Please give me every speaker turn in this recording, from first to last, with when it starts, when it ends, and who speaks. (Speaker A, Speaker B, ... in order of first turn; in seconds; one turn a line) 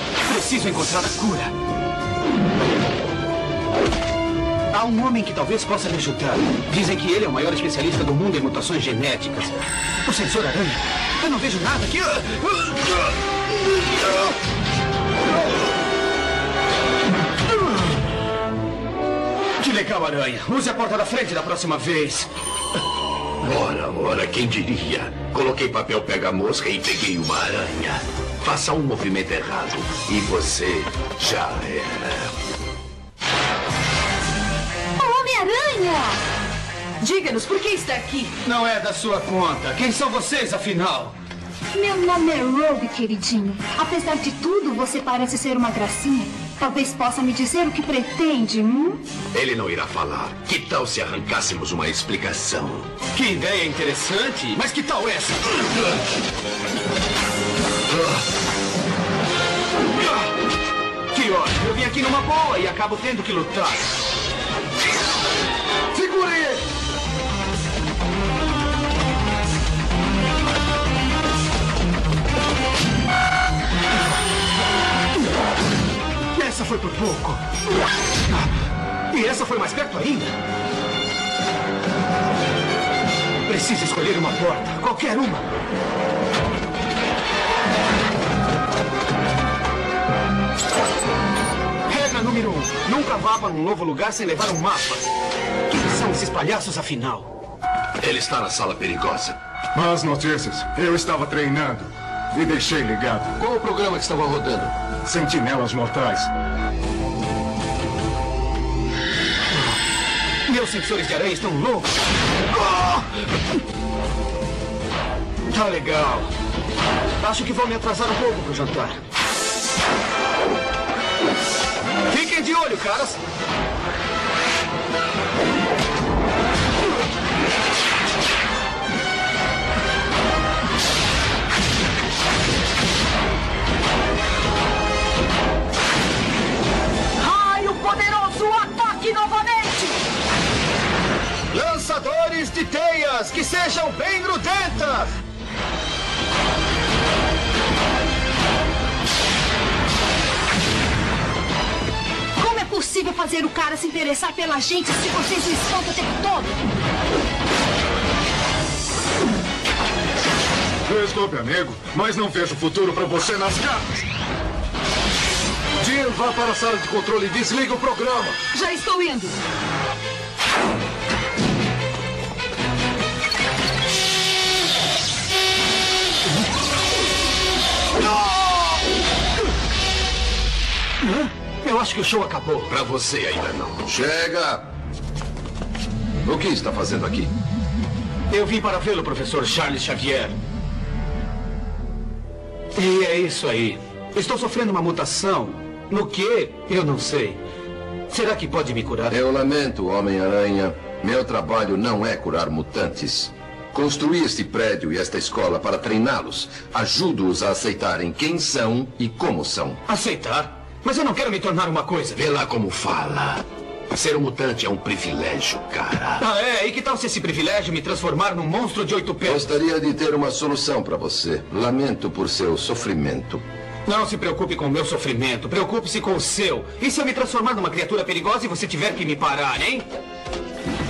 Speaker A: 0.2-1.5
Speaker A: 4.7-13.1
Speaker A: 19.6-22.3
Speaker B: 23.4-32.2
Speaker C: 35.0-36.2
Speaker C: 37.0-38.3
Speaker A: 38.4-41.1
Speaker C: 41.7-49.0
Speaker B: 49.3-52.8
Speaker A: 53.1-55.7
Speaker A: 61.1-63.9
Speaker B: 66.0-66.5
Speaker A: 76.3-77.5
Speaker A: 79.1-80.4
Speaker A: 83.4-85.5
Speaker A: 91.8-95.1
Speaker A: 95.7-97.3
Speaker B: 98.0-99.3
Speaker D: 99.7-103.4
Speaker B: 103.5-104.7
Speaker D: 105.0-106.3
Speaker A: 110.5-111.9
Speaker A: 112.5-113.1
Speaker A: 115.5-116.3
Speaker A: 117.2-119.0
Speaker A: 122.1-123.2
Speaker C: 137.2-139.9
Speaker A: 141.5-145.1
Speaker C: 152.4-156.5
Speaker D: 160.9-163.8
Speaker D: 165.8-168.4
Speaker C: 168.5-169.3
Speaker A: 181.0-182.7
Speaker B: 182.7-184.6
Speaker B: 186.2-187.3
Speaker A: 188.3-190.4
Speaker A: 192.7-197.4
Speaker A: 198.1-199.1
Speaker B: 199.1-209.8
Speaker A: 209.8-212.2
Speaker B: 212.2-216.2
Speaker A: 216.2-219.5
Speaker B: 219.2-223.4
Speaker A: 223.8-229.9